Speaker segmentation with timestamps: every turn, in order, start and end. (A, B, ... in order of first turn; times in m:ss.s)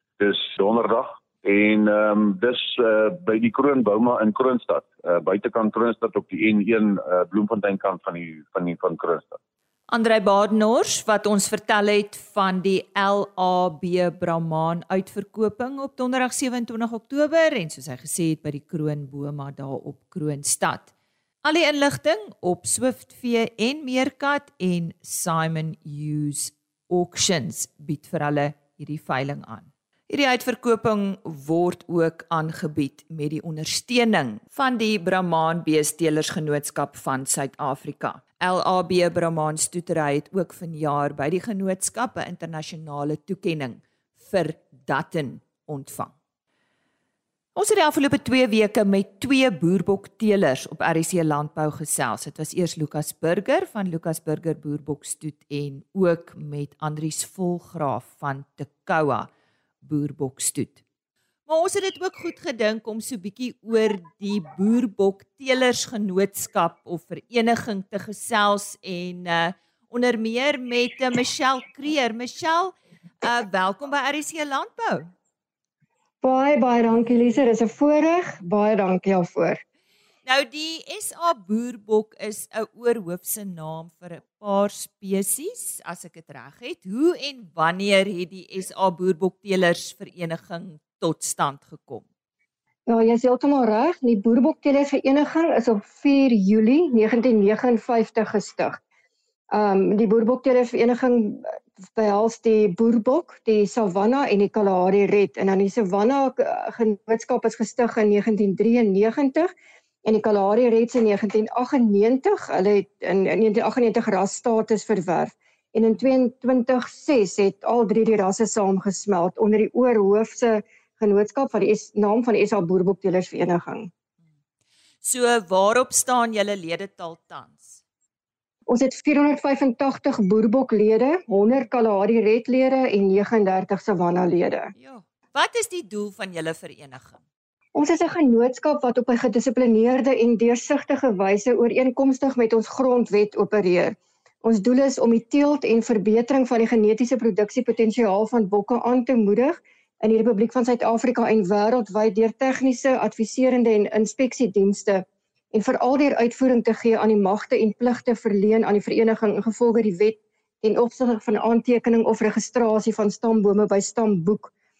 0:00.2-0:09.4 A
0:09.9-0:20.9 B
0:21.4-0:46.1 B
0:47.6-0:59.3 B
0:59.8-1:00.8 B
1:01.5-1:15.1 B
1:16.2-1:19.6 C
1:20.2-1:32.0 B
1:32.9-1:38.8 C
1:39.5-1:41.4 C
1:42.0-1:49.5 C
1:50.1-2:03.9 C
2:05.0-2:07.8 B
2:08.7-2:14.7 C
2:14.8-2:17.2 B
2:17.8-2:44.5 C